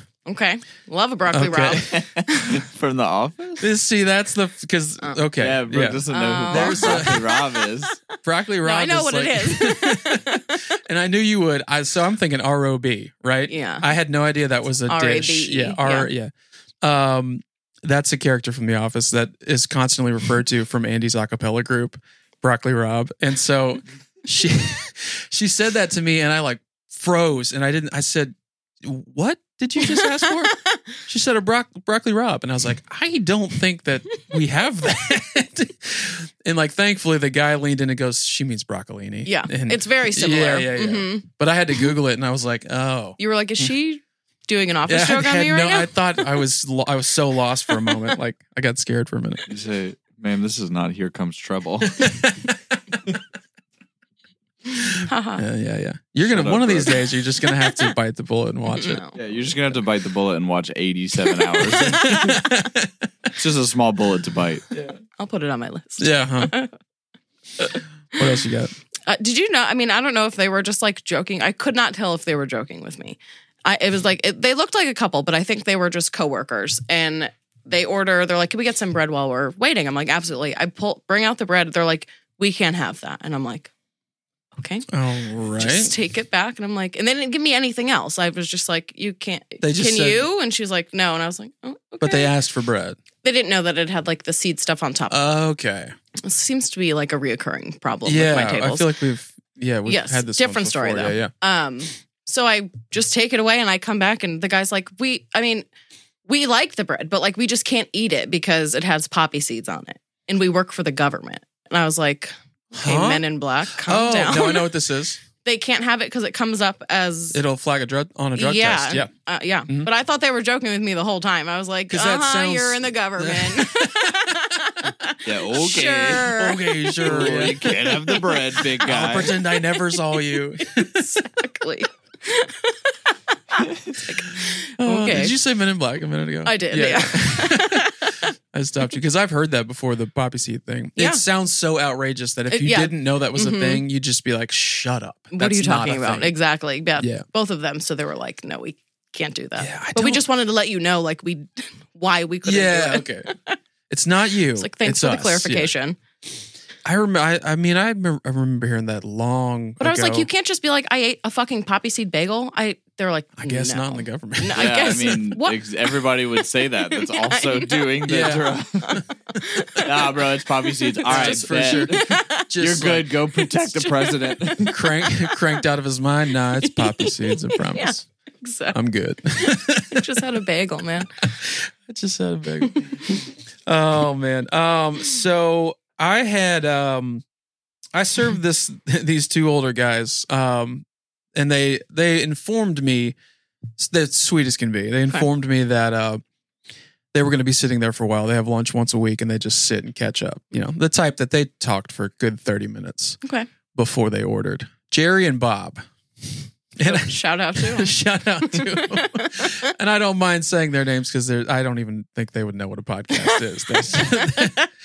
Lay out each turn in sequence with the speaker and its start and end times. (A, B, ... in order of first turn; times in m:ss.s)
0:00.2-0:02.6 A
0:01.3-0:02.0 B
0:01.9-0:03.7 C
0:03.6-0:07.3 B
0:05.4-0:08.0 C
0:06.1-0:08.0 A
0:08.2-0:43.7 B
0:08.6-0:10.7 A
0:13.5-0:13.9 A
0:14.9-0:16.1 A
0:29.8-0:30.8 A
0:39.2-0:41.3 A
0:43.2-0:46.3 A
0:44.9-0:49.5 B
0:49.5-0:52.3 C
0:52.1-0:52.5 B
0:54.8-0:59.0 B
0:55.0-0:55.4 A
0:56.3-0:57.1 C
0:58.7-0:59.2 A
0:59.2-1:02.4 C
1:01.8-1:02.9 B
1:01.9-1:02.4 A
1:03.3-1:04.8 C
1:05.2-1:06.7 A
1:06.0-1:06.5 B
1:07.6-1:08.7 B
1:09.1-1:23.7 A
1:24.6-1:24.9 A
1:24.9-1:26.0 B
1:25.6-1:32.3 A
1:29.6-1:30.2 B
1:32.0-1:33.0 B
1:33.2-1:35.2 A
1:35.1-1:35.9 B
1:36.2-1:38.9 A
1:38.0-1:41.3 B
1:39.9-1:45.7 A
1:46.3-1:54.7 A
1:52.8-1:53.2 B
1:53.8-1:55.2 B
1:55.4-1:57.4 A
1:57.3-1:59.1 B
1:58.4-2:08.6 A
2:01.9-2:04.5 B
2:05.2-2:06.4 C
2:06.4-2:07.6 B
2:07.0-2:09.4 C
2:08.8-2:11.1 B
2:09.8-2:15.4 A
2:14.8-2:26.4 B
2:16.4-2:18.2 A
2:21.0-2:21.2 A
2:22.5-2:23.8 A
2:25.3-2:33.6 A
2:27.0-2:27.3 B
2:29.6-2:30.2 B
2:32.4-2:33.3 B
2:33.9-2:35.7 B
2:34.6-2:36.0 A
2:36.8-2:40.3 B
2:39.8-2:45.6 A
2:43.4-2:45.0 B
2:44.6-2:49.0 C
2:46.9-2:48.0 A
2:48.1-2:48.5 B
2:48.8-2:50.1 A
2:49.8-2:54.7 C
2:51.0-2:52.5 A
2:51.0-2:53.1 B
2:53.6-2:55.5 A
2:54.6-2:58.0 B
2:56.6-2:58.8 A
2:58.7-3:00.2 B
2:59.4-3:01.1 A
3:01.2-3:07.2 B
3:02.7-3:03.1 A
3:07.9-3:13.2 B
3:13.8-3:16.2 B
3:17.1-3:23.2 B
3:23.2-3:23.5 A
3:23.7-3:34.6 B
3:26.8-3:29.6 A
3:33.2-3:34.6 A